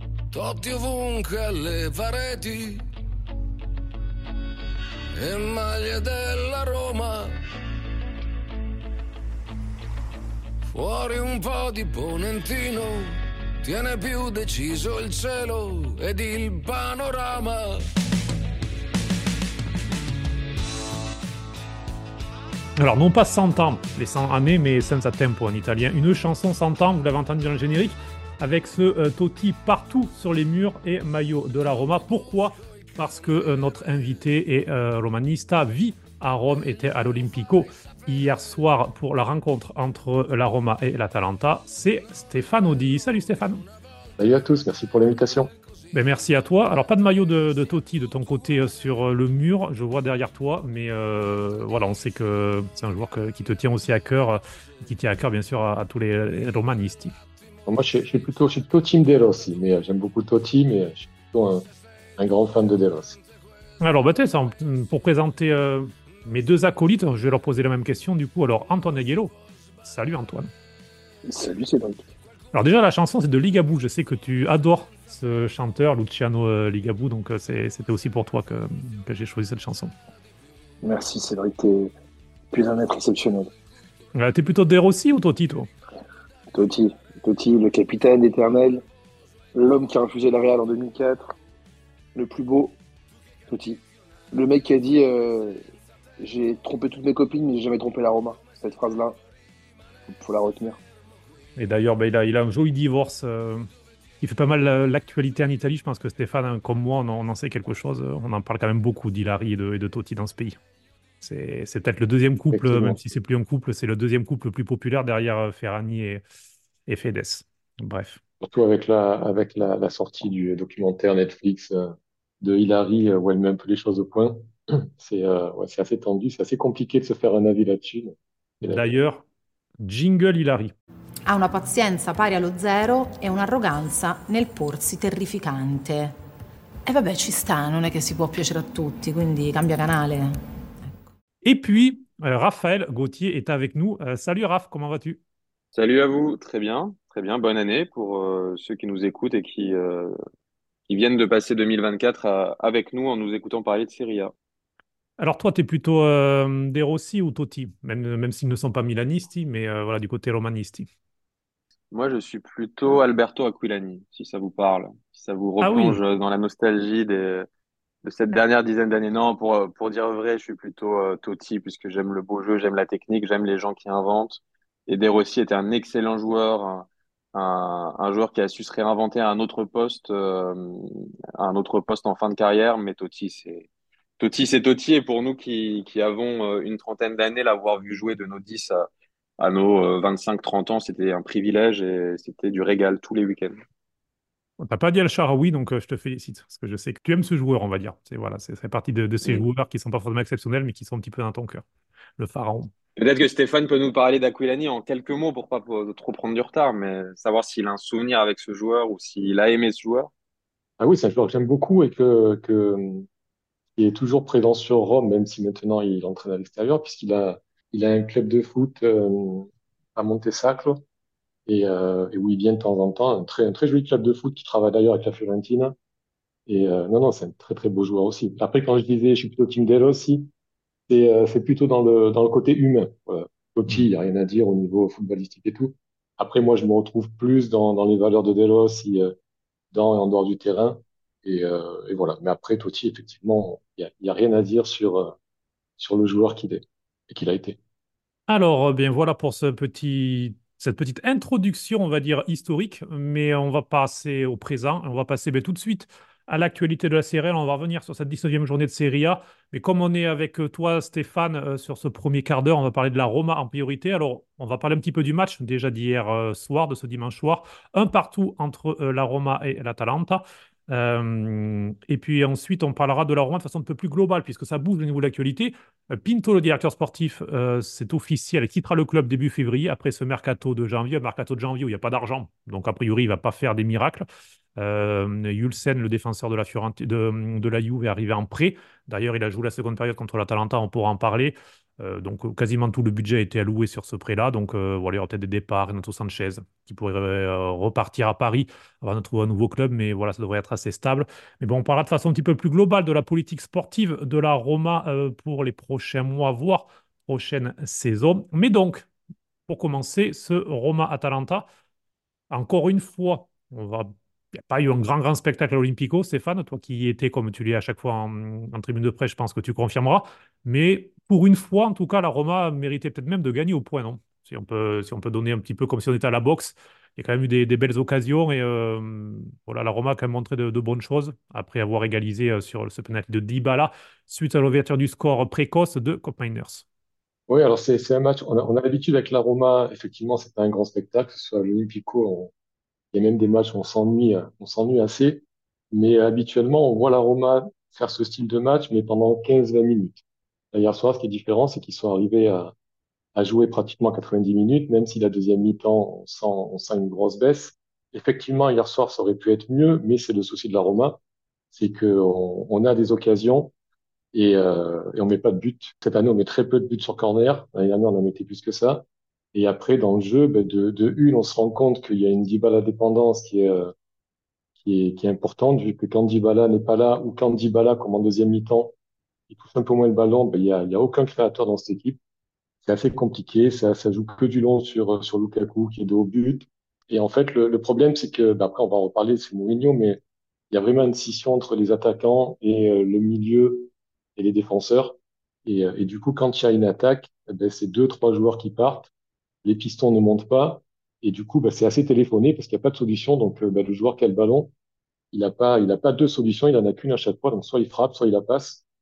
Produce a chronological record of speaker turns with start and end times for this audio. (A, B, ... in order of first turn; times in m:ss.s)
0:00.3-0:02.8 A
0:05.2-0:07.4 A
0:10.7-0:17.8 A
0:22.8-0:43.6 B
0:44.2-0:45.5 C
0:45.9-0:57.1 B
0:57.7-1:01.6 C
1:02.2-1:03.2 C
1:03.8-1:10.5 B
1:11.2-1:12.1 D
1:12.5-1:19.9 B
1:20.8-1:21.9 D
1:22.5-1:23.5 D
1:24.1-1:25.7 B
1:26.5-1:28.8 D
1:29.6-1:31.3 D
1:32.1-1:32.8 D
1:33.5-1:33.8 D
1:34.3-1:35.6 D
1:36.2-1:39.2 D
1:40.1-1:40.8 D
1:41.6-1:43.7 B
1:44.2-1:50.6 B
1:51.2-1:56.2 B
1:52.5-1:53.0 C
1:56.9-1:58.2 B
1:58.4-2:08.9 C
2:08.6-2:09.2 B
2:09.8-2:10.7 B
2:11.2-2:16.2 E
2:16.9-2:20.4 E
2:21.4-2:25.2 B
2:25.7-2:30.2 F
2:30.9-2:34.3 F
2:35.2-2:40.9 B
2:41.9-2:47.5 F
2:45.6-2:46.0 B
2:48.0-3:03.7 F
3:04.2-3:08.9 F
3:09.4-3:13.6 F
3:14.6-3:21.6 B
3:22.2-3:22.7 B
3:23.0-3:30.1 F
3:30.8-3:33.0 C
3:33.8-3:40.8 C
3:41.5-3:45.8 C
3:46.5-3:50.3 C
3:50.9-3:59.1 C
3:59.7-4:05.2 C
4:05.8-4:07.6 C
4:08.3-4:44.1 B
4:44.6-5:08.9 B
5:09.5-5:11.4 B
5:12.3-5:36.6 B
5:37.3-5:42.3 C
5:42.9-5:50.0 C
5:50.5-5:52.5 C
5:53.1-6:01.0 C
6:01.5-6:03.5 C
6:04.1-6:13.7 C
6:14.6-6:18.7 C
6:19.3-6:22.0 C
6:22.6-6:30.0 C
6:30.5-6:38.9 C
6:39.4-6:44.5 C
6:45.1-6:48.6 C